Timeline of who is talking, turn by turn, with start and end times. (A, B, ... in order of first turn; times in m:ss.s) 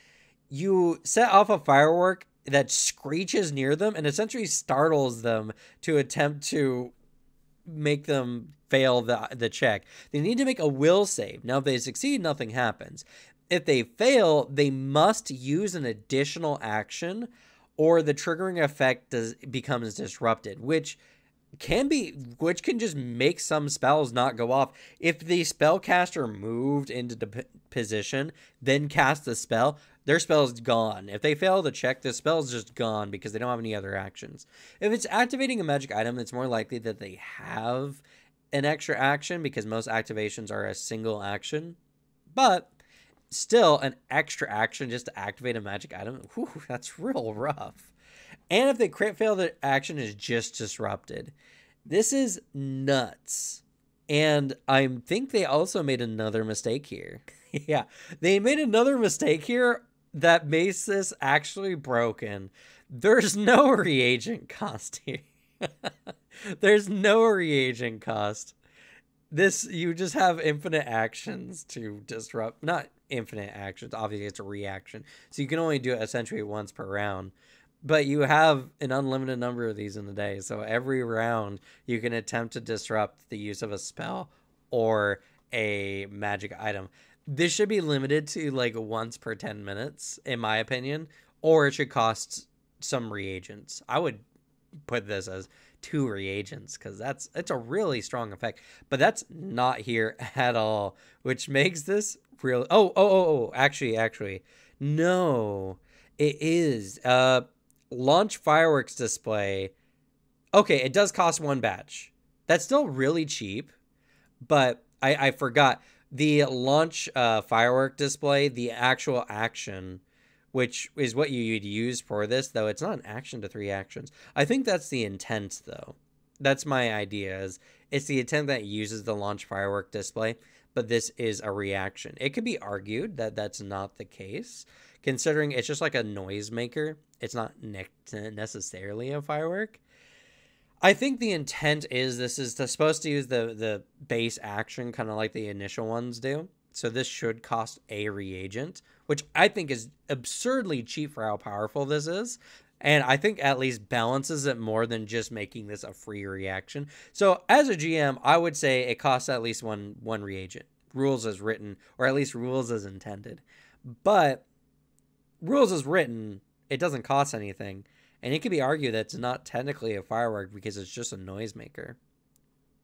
0:00.5-0:06.9 A
0:07.6-0:21.0 A
0:21.6-0:41.8 A
0:42.3-0:42.7 A
0:43.3-0:47.9 A
0:48.5-0:51.3 A
0:51.8-1:05.9 A
1:06.4-1:08.5 A
1:09.3-1:34.2 A
1:34.9-1:49.7 A
1:50.5-1:53.7 A
1:54.4-2:00.0 A
2:00.5-2:19.8 A
2:20.8-2:44.4 A
2:45.4-2:52.0 A